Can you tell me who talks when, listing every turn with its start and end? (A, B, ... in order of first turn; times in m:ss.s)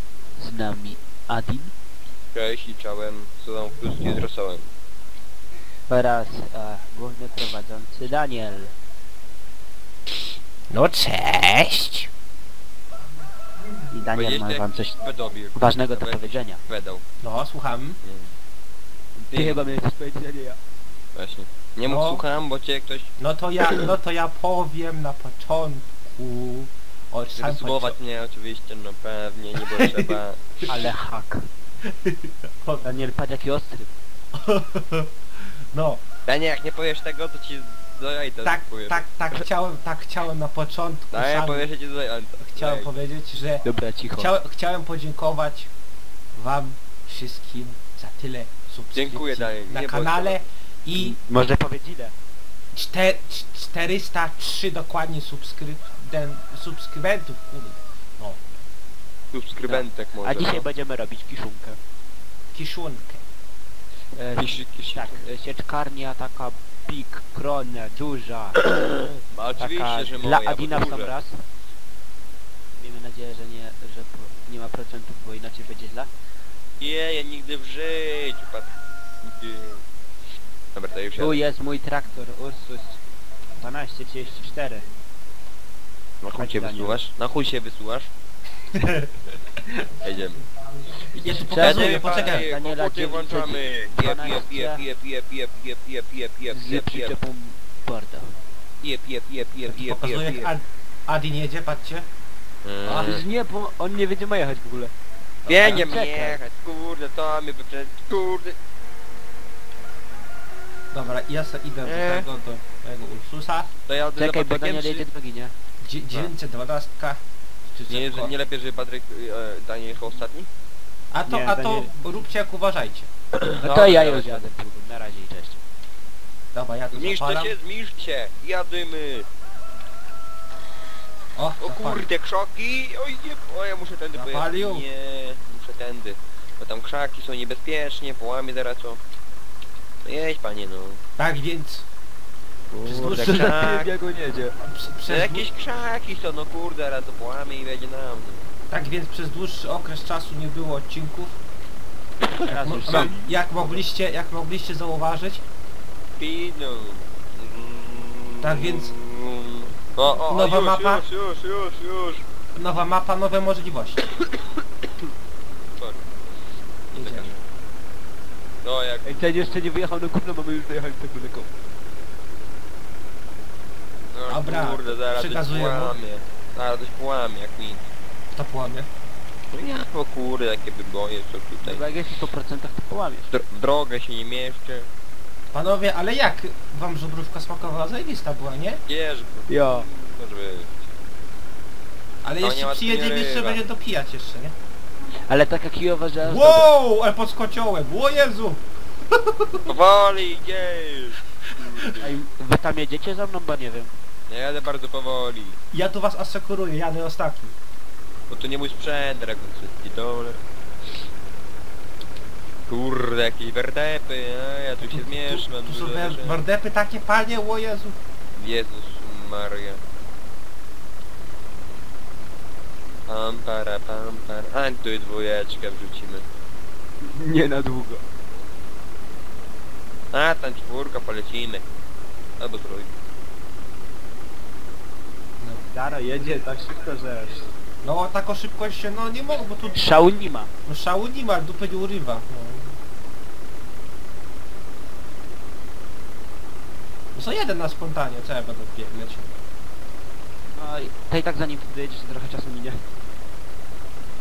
0:00.4-0:01.7 A
0:02.3-0:04.7 B
0:05.9-0:08.7 A
0:10.7-0:12.1 C
0:13.9-0:15.0 A
0:14.1-0:17.0 B
0:15.6-0:16.6 A
0:17.2-0:18.0 C
0:18.0-0:18.3 B
0:19.2-0:20.6 A
0:19.3-0:19.7 B
0:21.1-0:23.9 B
0:21.8-0:22.2 C
0:23.2-0:28.0 C
0:27.4-0:30.4 B
0:29.6-0:30.7 C
0:30.7-0:31.5 A
0:31.8-0:32.9 C
0:32.8-0:33.9 A
0:34.3-0:36.0 C
0:36.3-0:39.0 B
0:38.4-0:41.7 C
0:41.1-0:42.9 B
0:42.4-0:43.6 C
0:43.6-0:44.3 A
0:44.2-0:45.7 C
0:46.3-0:51.2 C
0:48.9-0:50.4 B
0:50.9-0:52.1 A
0:52.7-0:58.4 C
0:59.3-1:00.6 B
0:59.6-1:01.8 A
1:02.5-1:03.2 C
1:04.1-1:08.6 A
1:04.4-1:05.2 B
1:08.6-1:11.1 B
1:09.6-1:11.4 A
1:12.8-1:16.1 A
1:16.8-1:18.7 B
1:19.2-1:19.8 B
1:20.7-1:21.4 B
1:21.2-1:23.0 A
1:23.6-1:24.8 A
1:26.2-1:28.1 B
1:26.3-1:27.0 A
1:28.7-1:29.1 C
1:30.0-1:30.4 B
1:31.1-1:32.5 C
1:31.3-1:34.8 A
1:31.6-1:37.1 B
1:36.5-1:38.4 A
1:38.8-1:40.5 B
1:39.7-1:42.0 C
1:42.6-1:43.2 B
1:43.0-1:44.9 A
1:45.4-1:48.6 B
1:45.5-1:45.9 C
1:45.5-1:46.4 A
1:50.9-1:53.7 C
1:51.8-1:52.3 B
1:53.9-1:55.0 B
1:54.2-1:55.5 A
1:55.8-1:58.3 C
1:57.9-2:00.5 B
2:01.1-2:03.1 C
2:01.3-2:01.9 A
2:03.4-2:04.5 B
2:03.6-2:05.6 A
2:06.5-2:07.5 C
2:06.9-2:09.3 B
2:11.4-2:12.0 C
2:11.6-2:19.0 B
2:14.1-2:14.8 C
2:20.0-2:21.0 B
2:21.2-2:21.8 C
2:22.7-2:24.6 A
2:22.8-2:23.5 C
2:23.1-2:23.9 B
2:24.6-2:25.5 C
2:25.1-2:28.4 B
2:28.7-2:31.4 C
2:32.5-2:33.3 A
2:32.5-2:35.4 C
2:36.2-2:42.2 B
2:38.4-2:38.9 C
2:40.3-2:41.0 C
2:42.5-2:44.1 C
2:46.9-2:47.3 C
2:47.0-2:47.4 B
2:48.6-2:49.7 B
2:49.0-2:51.5 A
2:54.1-2:57.9 B
2:54.3-2:56.0 C
2:58.3-2:58.9 C
2:59.5-3:01.9 B
3:01.6-3:03.3 A
3:03.3-3:04.9 B
3:05.5-3:08.8 C
3:08.9-3:10.9 B
3:09.5-3:09.9 A
3:12.2-3:14.6 C
3:12.4-3:13.6 B
3:15.3-3:16.7 A
3:16.2-3:19.7 C
3:19.6-3:22.1 B
3:21.5-3:22.0 C
3:22.0-3:23.9 A
3:24.3-3:25.6 B
3:25.7-3:27.5 C
3:28.3-3:30.4 B
3:32.7-3:36.4 B
3:34.8-3:38.0 C
3:38.3-3:39.8 B
3:43.1-3:46.2 B
3:47.0-3:48.0 A
3:50.1-3:51.6 B
3:52.4-3:52.9 B
3:55.7-3:57.4 A
3:57.8-3:59.8 C
3:59.7-4:00.5 A
4:00.6-4:02.8 C
4:07.1-4:09.3 C
4:10.5-4:12.8 A